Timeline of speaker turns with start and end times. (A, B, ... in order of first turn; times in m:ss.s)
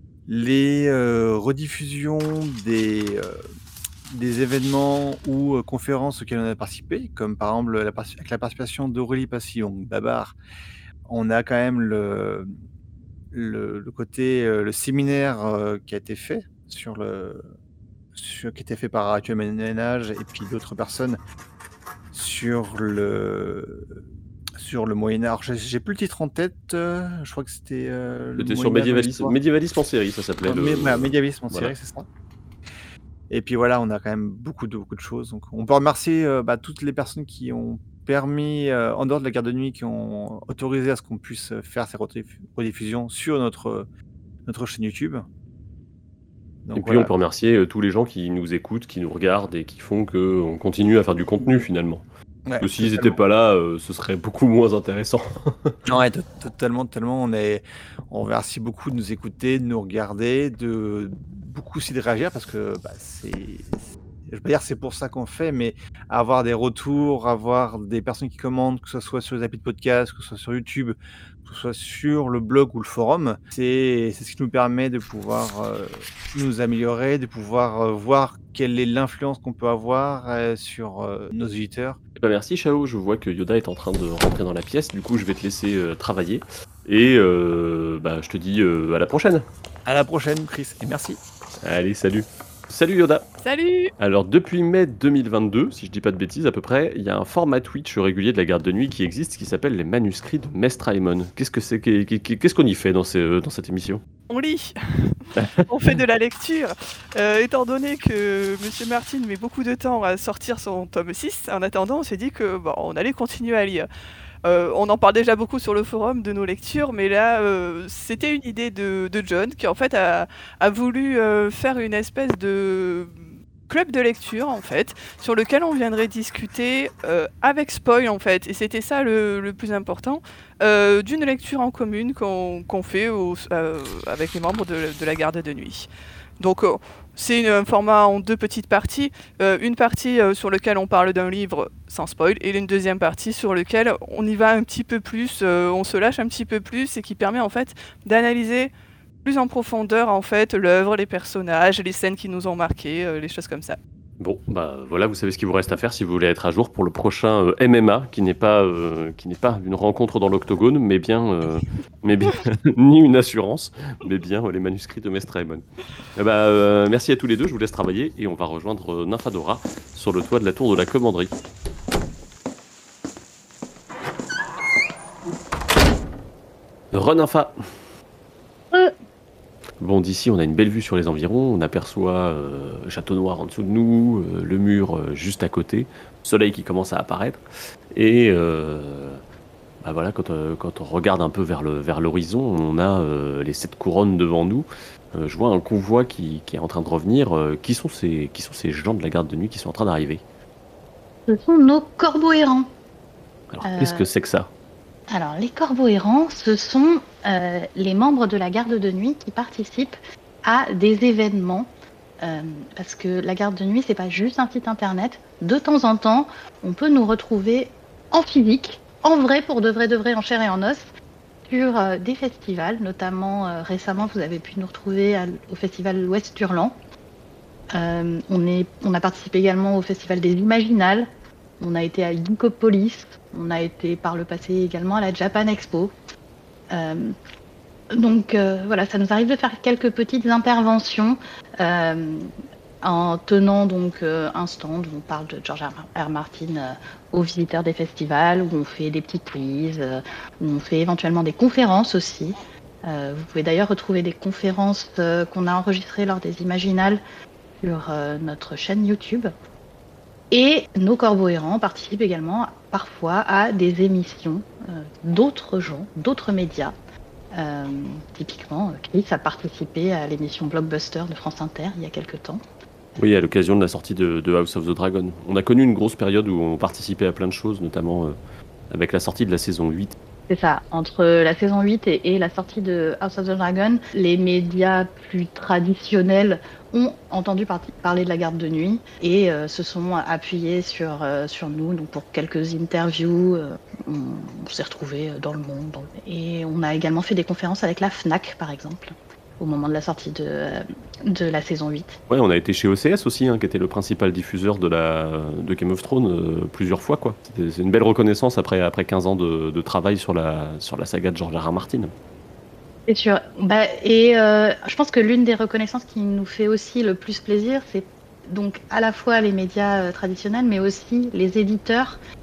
0:00.3-0:03.5 A
0:04.1-0:10.4 A
0:11.1-0:12.5 A
0:13.3-0:17.5 A
0:18.2-0:21.2 A
0:22.1-0:24.0 A
0:24.6-0:29.3 A
0:28.4-0:31.7 B
0:30.4-0:32.1 A
0:33.3-0:43.9 A
0:44.5-0:45.3 A
0:46.6-0:47.1 A
0:46.7-0:52.0 B
0:52.5-0:53.2 A
0:52.6-0:55.8 B
0:55.9-1:03.8 A
1:04.3-1:22.0 A
1:22.2-1:29.5 B
1:29.9-1:31.2 A
1:31.6-1:33.3 B
1:33.4-1:33.9 C
1:34.0-1:44.0 B
1:44.3-1:45.1 C
1:45.7-1:53.9 C
1:54.4-2:15.9 C
2:16.4-2:28.7 C
2:29.2-2:33.8 C
2:34.2-2:45.6 B
2:46.2-2:51.4 B
2:56.9-2:57.8 B
2:59.8-3:09.2 B
3:09.8-3:20.2 B
3:21.3-3:22.7 D
3:23.5-3:24.5 B
3:23.6-3:24.1 D
3:25.1-3:31.7 D
3:32.2-3:40.9 D
3:41.5-3:46.8 D
3:47.7-3:51.1 D
3:51.6-3:55.9 D
3:56.7-3:57.1 D
3:57.9-4:02.3 D
4:02.8-4:17.0 D
4:17.6-4:19.3 D
4:20.3-4:26.8 D
4:27.3-4:32.4 D
4:33.0-4:38.2 B
4:38.7-4:40.0 B
4:40.3-5:02.0 D
5:02.1-5:11.9 B
5:12.9-5:22.0 D